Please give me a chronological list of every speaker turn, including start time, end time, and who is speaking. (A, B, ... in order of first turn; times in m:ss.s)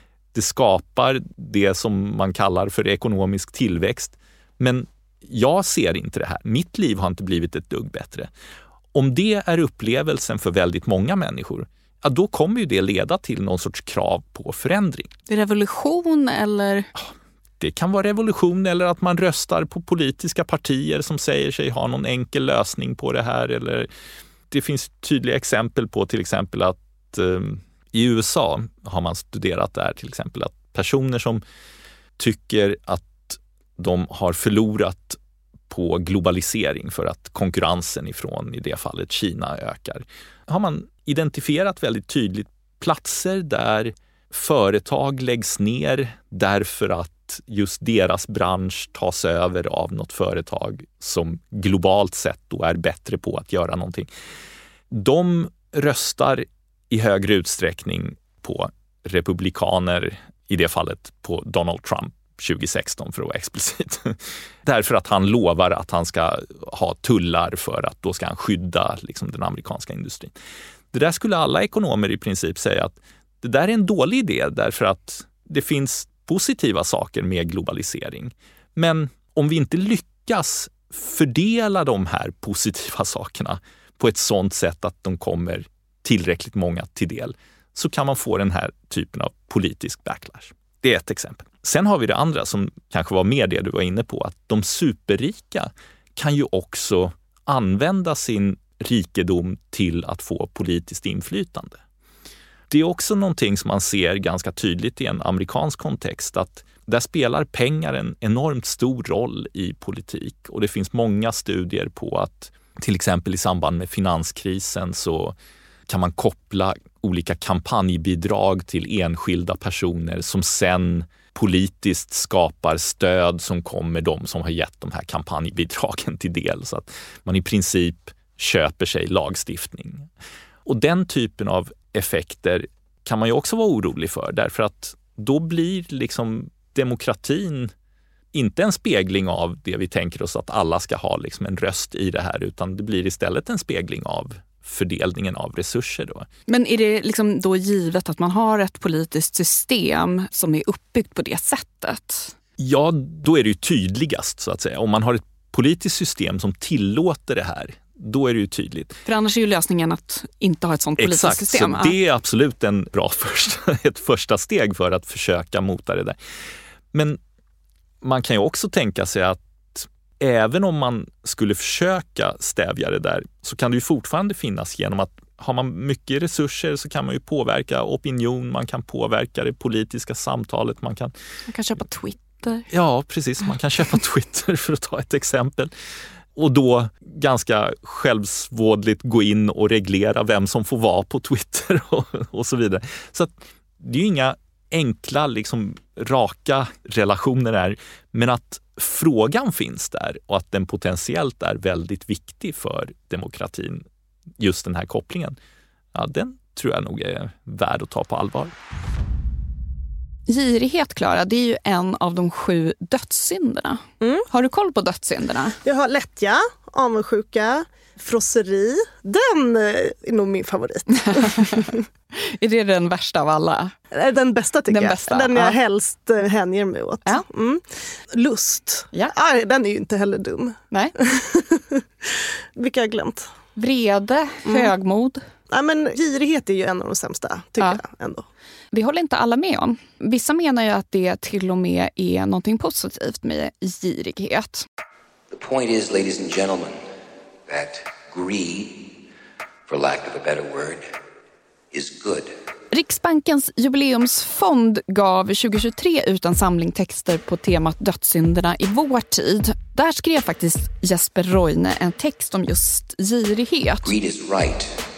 0:00.3-0:08.3 A
0:08.9-0:15.1 A
0:15.3-0:16.9 B
0:17.0-0:23.9 A
0:24.5-0:31.4 A
0:32.2-0:35.2 A
0:35.7-0:54.1 A
0:54.9-1:10.3 A
1:10.9-1:41.8 A
1:42.7-1:55.4 A
1:55.9-2:10.1 A
2:10.7-2:17.7 A
2:18.3-2:26.3 A
2:26.5-2:32.3 B
2:32.6-2:39.0 A
2:39.1-2:42.0 B
2:41.0-2:46.2 A
2:46.9-2:47.2 A
2:48.0-3:01.1 A
3:01.5-3:02.7 B
3:02.7-3:05.7 A
3:06.4-3:23.8 A
3:24.4-3:25.4 A
3:26.0-3:28.5 A
3:30.3-3:35.6 B
3:34.0-3:34.3 C
3:35.6-3:41.7 C
3:41.0-3:43.7 B
3:43.9-3:52.0 C
3:44.7-3:45.6 B
3:52.6-3:53.3 C
3:53.6-3:55.2 B
3:54.4-3:54.7 C
3:55.5-3:58.2 C
3:58.7-4:04.6 B
4:05.3-4:06.8 D
4:07.5-4:08.9 D
4:09.7-4:10.9 D
4:11.7-4:12.3 D
4:12.7-4:23.9 B
4:23.8-4:24.7 D